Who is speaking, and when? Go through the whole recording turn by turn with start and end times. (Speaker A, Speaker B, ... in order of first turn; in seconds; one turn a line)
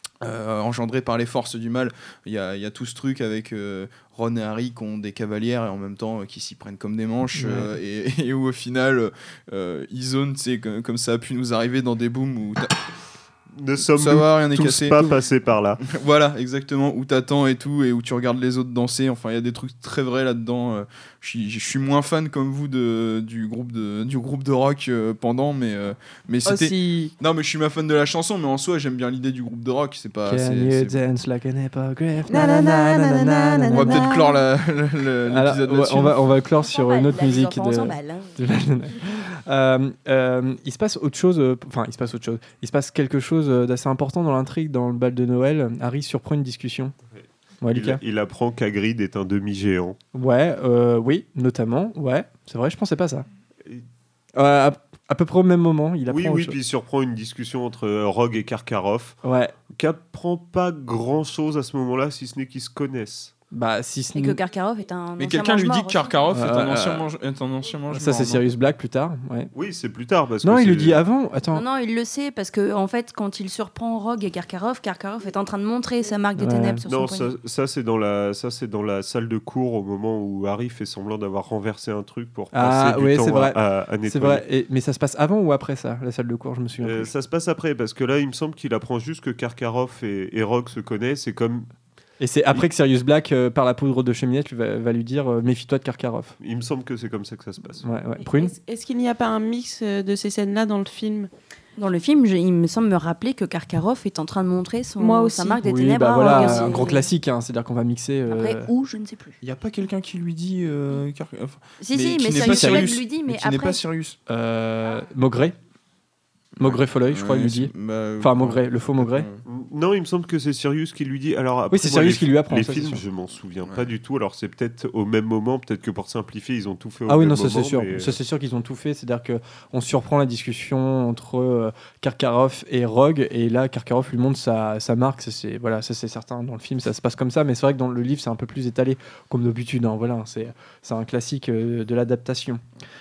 Speaker A: 0.2-12.8
Speaker B: 7.3-7.7
Speaker C: 13.6-15.8
Speaker A: 14.0-15.1
Speaker A: 15.8-31.0
Speaker D: 26.4-27.1
Speaker B: 30.3-34.1
Speaker D: 32.3-34.4
Speaker A: 33.7-36.2
Speaker B: 35.3-46.9
Speaker E: 36.5-38.4
Speaker C: 47.1-50.0
Speaker B: 47.6-48.0
Speaker B: 50.1-53.3
Speaker B: 54.4-56.6
Speaker C: 56.1-59.2
Speaker B: 59.2-59.5
Speaker C: 59.7-63.3
Speaker B: 63.5-64.4
Speaker E: 64.2-66.1
Speaker A: 65.2-68.4
Speaker B: 66.3-67.1
Speaker B: 67.9-69.5
Speaker C: 69.5-71.0
Speaker B: 70.4-71.6
Speaker E: 71.5-77.3
Speaker B: 76.4-76.8
Speaker C: 76.8-84.4
Speaker B: 82.5-87.1
Speaker C: 86.8-91.7
Speaker B: 92.2-96.4
Speaker C: 96.4-97.8
Speaker B: 97.8-98.5
Speaker D: 98.2-101.3
Speaker E: 101.8-107.1
Speaker D: 105.0-105.6
Speaker B: 105.6-108.7
Speaker D: 106.2-106.9
Speaker E: 108.3-109.4
Speaker A: 109.4-114.2
Speaker E: 111.8-113.8
Speaker B: 112.4-112.9
Speaker B: 114.3-115.6
Speaker A: 116.6-119.4
Speaker B: 116.6-119.3
Speaker C: 119.5-128.2
Speaker B: 121.7-123.0
Speaker B: 127.1-142.6